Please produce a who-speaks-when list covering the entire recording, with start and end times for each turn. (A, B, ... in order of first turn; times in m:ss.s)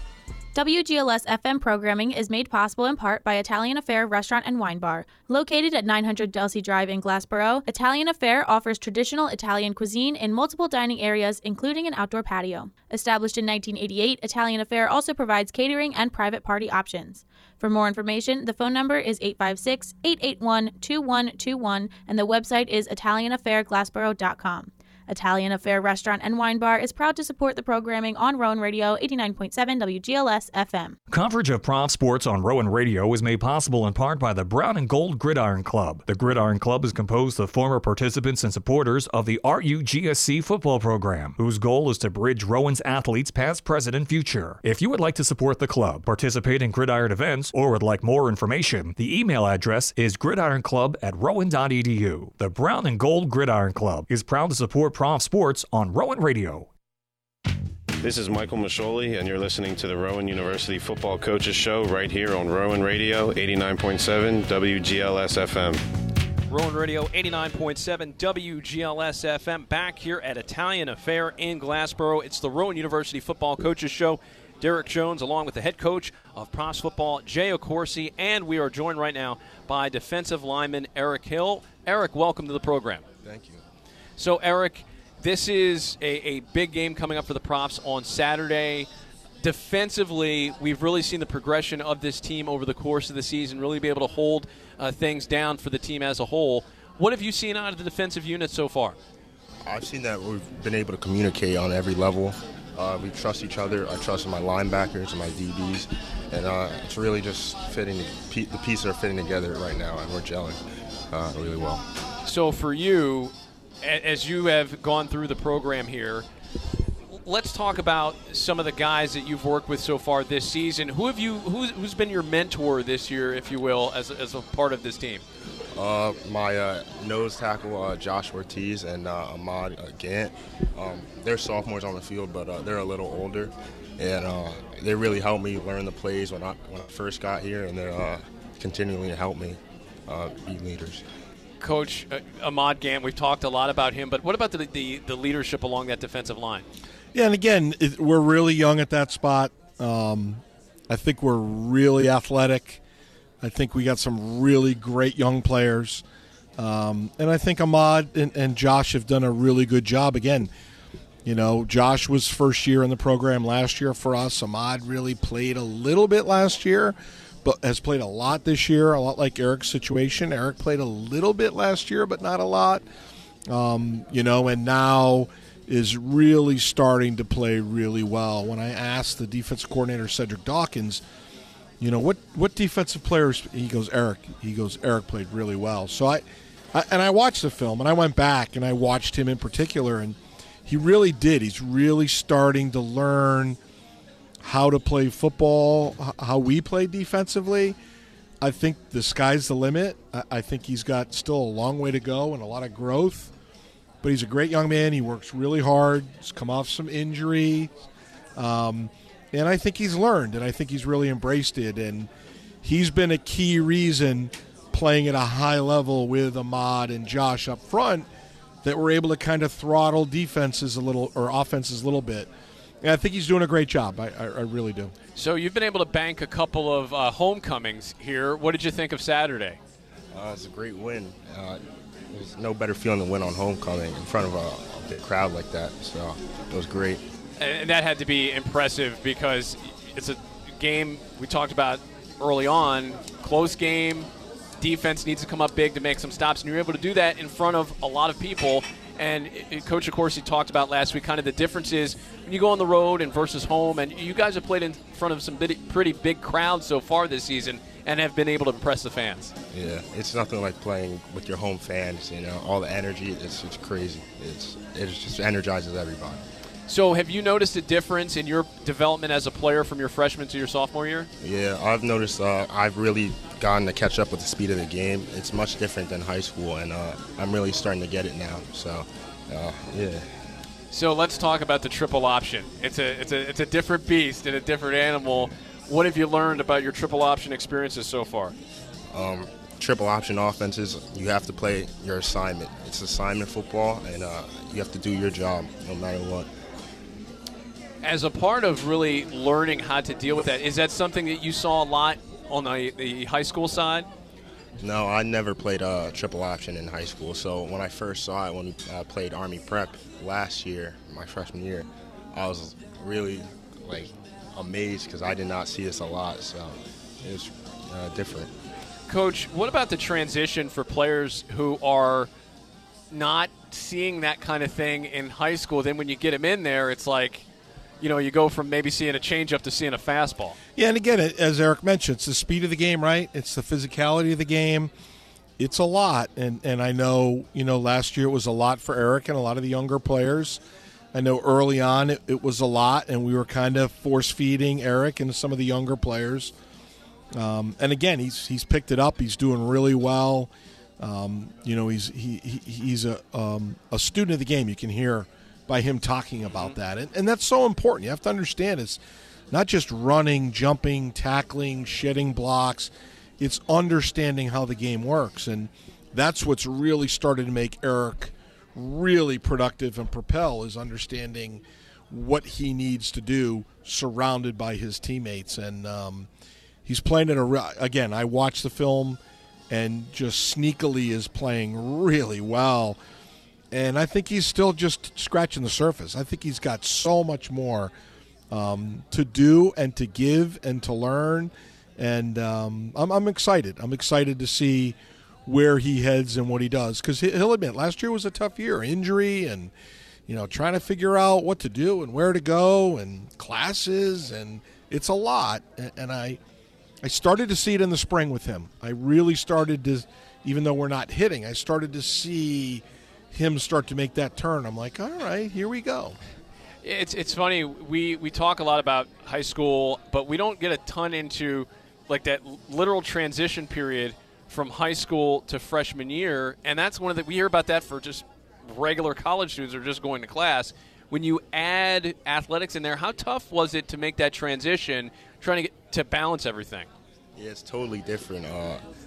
0:00.5-0:31.0 A
0:31.1-0:56.7 B
0:58.0-1:05.8 C
1:06.5-1:23.0 D
1:23.2-1:23.6 E
1:24.2-1:28.9 D
1:29.4-1:39.0 D
1:39.6-1:50.6 E
1:51.1-1:51.8 E
1:52.2-1:56.2 D
1:57.1-2:05.2 D
2:05.8-2:21.0 E
2:21.6-2:26.6 D
2:27.1-2:32.8 F
2:33.4-2:36.0 F
2:36.6-2:40.5 F
2:41.2-2:52.8 F
2:53.5-3:01.0 F
3:01.8-3:13.6 F
3:14.4-3:17.8 F
3:18.4-3:23.3 F
3:24.0-3:27.7 F
3:28.4-3:32.1 F
3:32.6-3:38.1 F
3:38.6-3:42.3 F
3:42.8-3:44.9 F
3:45.2-3:49.6 D
3:50.1-3:57.0 E
3:57.4-4:04.1 D
4:04.6-4:19.3 D
4:19.5-4:26.2 E
4:26.7-4:31.1 D
4:31.2-4:40.1 E
4:40.7-4:48.3 D
4:48.9-4:56.3 E
4:57.8-5:03.9 D
5:04.6-5:18.3 E
5:18.9-5:22.1 D
5:22.9-5:27.2 D
5:27.8-5:30.4 D
5:30.6-5:34.7 F
5:35.4-5:40.4 F
5:40.9-5:46.3 F
5:47.1-5:58.8 F
5:59.3-6:16.1 F
6:16.6-6:22.8 F
6:23.5-6:27.7 F
6:28.3-6:39.5 F
6:40.1-6:46.2 F
6:46.8-6:56.0 F
6:56.6-7:16.7 D
7:17.2-7:18.6 E